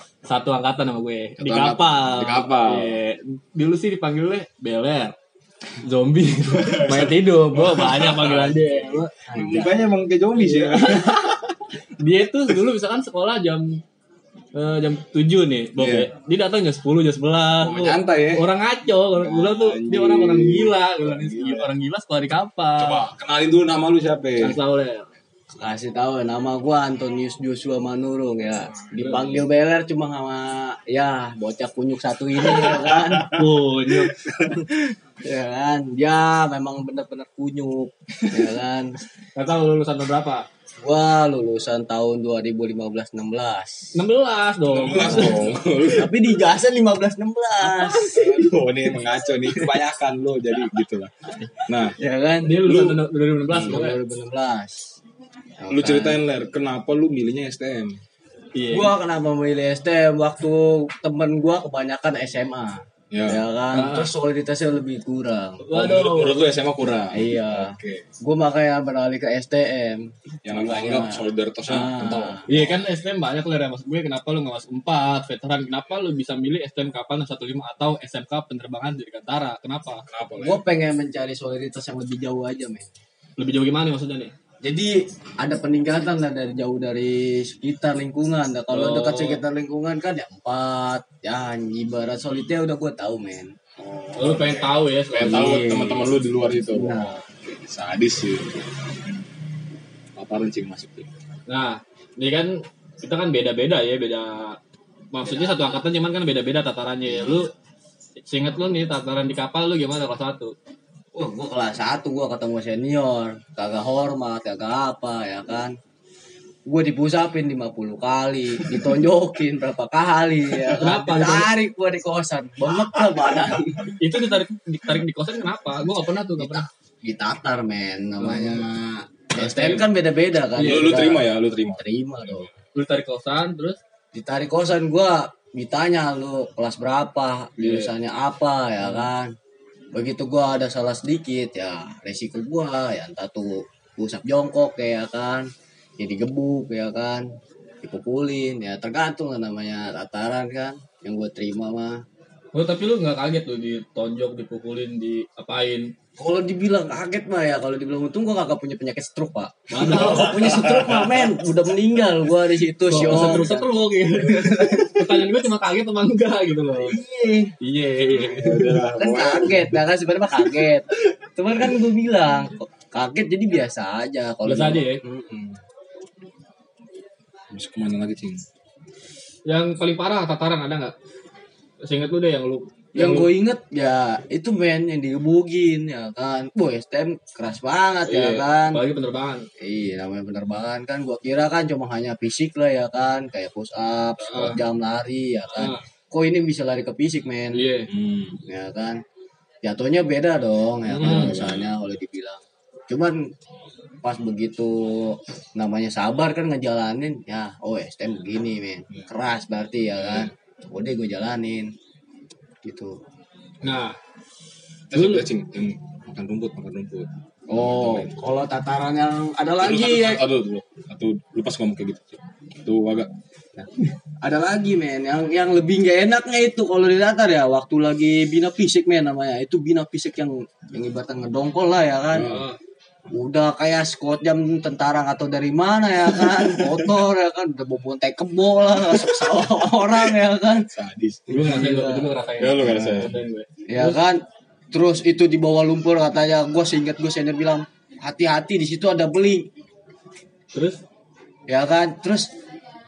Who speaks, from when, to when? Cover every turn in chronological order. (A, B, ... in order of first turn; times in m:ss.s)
0:00.3-0:05.1 A
0:01.4-0:03.0 B
0:05.8-0:09.1 A
0:06.5-0:11.6 B
0:09.2-0:09.8 C
0:10.3-0:11.3 A
0:12.0-0:13.8 A
0:14.5-0:23.1 A
0:15.8-0:16.1 B
0:17.6-0:18.5 B
0:19.1-0:21.7 B
0:22.8-0:24.6 B
0:24.4-0:25.1 A
0:25.6-0:33.3 C
0:28.9-0:29.2 B
0:29.0-0:29.4 A
0:32.4-0:34.6 B
0:33.3-0:34.2 A
0:34.4-0:39.0 C
0:39.4-0:40.5 A
0:40.8-0:43.9 C
0:43.9-0:45.4 A
0:44.7-0:46.1 B
0:45.0-0:48.5 C
0:47.8-0:48.3 A
0:47.8-0:51.1 B
0:49.4-0:49.7 C
0:51.7-0:52.0 B
0:52.0-0:52.9 C
0:52.4-0:54.0 A
0:52.7-0:52.9 B
0:53.5-0:54.9 C
0:55.6-0:56.2 C
0:55.7-0:58.0 B
0:58.5-0:58.9 A
0:58.7-1:05.6 C
1:03.1-1:03.4 B
1:03.7-1:04.1 A
1:05.6-1:06.5 A
1:05.7-1:08.1 B
1:07.1-1:12.7 C
1:10.4-1:12.5 B
1:12.5-1:20.0 A
1:20.1-1:20.6 B
1:20.4-1:22.9 C
1:23.4-1:24.3 A
1:24.6-1:33.5 C
1:28.7-1:29.4 A
1:33.8-1:39.1 B
1:34.2-1:35.5 A
1:35.2-1:36.1 C
1:36.6-1:37.2 C
1:40.2-1:41.1 B
1:41.5-1:44.6 A
1:45.1-1:47.5 A
1:48.2-1:50.5 A
1:51.1-1:55.7 C
1:56.7-2:04.0 C
2:00.8-2:01.5 A
2:03.0-2:03.4 B
2:04.0-2:06.7 A
2:06.4-2:12.5 C
2:08.3-2:08.6 A
2:09.4-2:09.8 A
2:10.6-2:10.9 A
2:10.6-2:11.8 B
2:12.7-2:13.8 A
2:14.1-2:19.3 C
2:17.6-2:17.9 A
2:19.9-2:27.2 C
2:27.8-2:32.0 C
2:32.5-2:35.9 A
2:36.2-2:43.7 C
2:39.7-2:40.8 A
2:40.0-2:41.2 B
2:42.9-2:47.0 A
2:43.0-2:43.4 B
2:44.6-2:45.0 C
2:46.8-2:47.5 C
2:47.6-2:48.8 A
2:48.1-2:49.8 B
2:48.8-2:55.6 C
2:54.4-2:55.0 A
2:57.5-2:58.4 B
2:59.5-3:00.9 A
3:01.8-3:03.3 A
3:02.9-3:08.8 C
3:08.1-3:09.4 A
3:09.6-3:17.6 C
3:14.3-3:14.6 B
3:15.6-3:15.8 A
3:17.5-3:17.9 A
3:17.9-3:18.4 B
3:18.5-3:19.0 C
3:19.6-3:23.2 C
3:20.9-3:21.3 A
3:21.0-3:21.7 B
3:24.0-3:31.7 C
3:30.0-3:30.3 B
3:32.6-3:33.0 C
3:33.6-3:34.0 A
3:34.9-3:38.1 B
3:34.9-3:35.2 A
3:37.5-3:40.2 C
3:39.6-3:43.1 B
3:44.2-3:52.3 C
3:52.1-3:52.4 B
3:52.2-3:52.6 A
3:53.1-4:00.6 C
3:56.1-3:57.0 B
3:58.8-3:59.5 B
4:00.7-4:01.3 B
4:01.3-4:02.1 C
4:01.3-4:04.0 A
4:02.4-4:03.1 B
4:02.6-4:03.1 C
4:03.7-4:04.2 C
4:04.7-4:09.4 C
4:10.5-4:10.8 A
4:11.5-4:12.3 C